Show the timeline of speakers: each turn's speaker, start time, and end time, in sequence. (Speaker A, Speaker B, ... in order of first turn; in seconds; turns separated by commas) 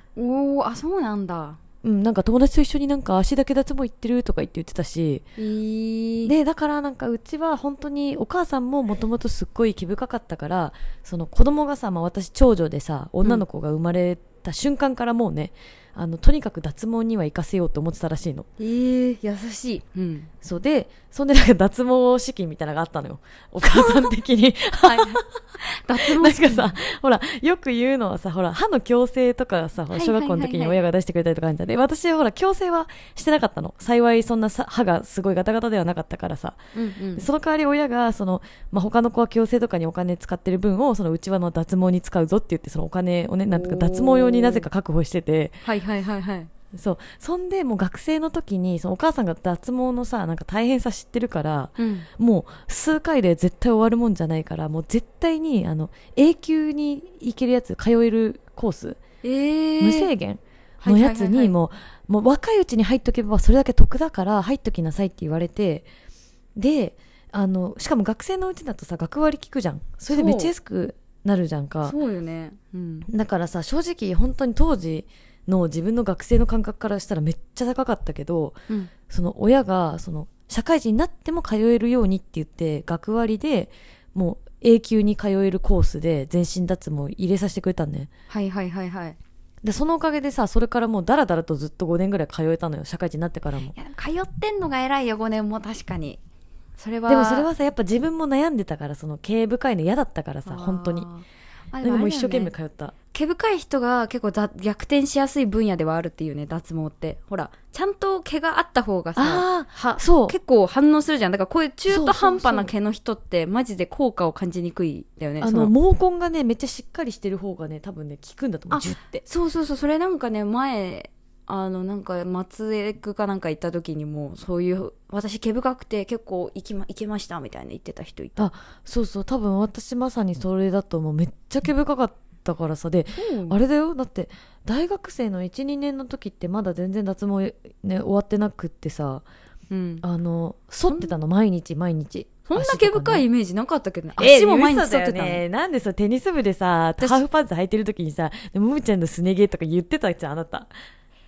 Speaker A: 0.2-1.6, Speaker B: 1.8-5.2, Speaker A: 5.4-6.3, Speaker B: 6.3-18.5, Speaker A: 18.6-20.3, Speaker B: 20.4-25.3, Speaker A: 23.6-24.1, Speaker A: 24.8-26.8, Speaker B: 26.0-36.6, Speaker A: 29.9-30.8, Speaker A: 36.8-37.3, Speaker B: 37.2-45.6, Speaker A: 43.5-44.7, Speaker A: 45.6-46.5, Speaker B: 46.7-59.0, Speaker A: 51.8-52.1, Speaker A: 59.2-60.1, Speaker B: 59.8-65.9, Speaker A: 60.8-61.5, Speaker B: 66.6-72.0, Speaker A: 70.1-70.5, Speaker A: 71.8-73.1, Speaker B: 73.1-88.1, Speaker A: 88.3-89.2, Speaker B: 89.6-93.8, Speaker A: 93.7-96.2, Speaker A: 96.8-97.5, Speaker B: 97.1-101.1, Speaker A: 100.5-102.5, Speaker B: 101.8-103.0, Speaker A: 103.1-115.7, Speaker B: 109.2-110.4, Speaker B: 111.9-112.7, Speaker B: 115.4-119.2, Speaker A: 118.7-128.4, Speaker B: 128.4-139.2, Speaker A: 133.2-133.6, Speaker A: 139.7-140.1, Speaker B: 140.0-143.2, Speaker A: 140.9-141.2, Speaker A: 142.5-145.4, Speaker B: 144.2-150.7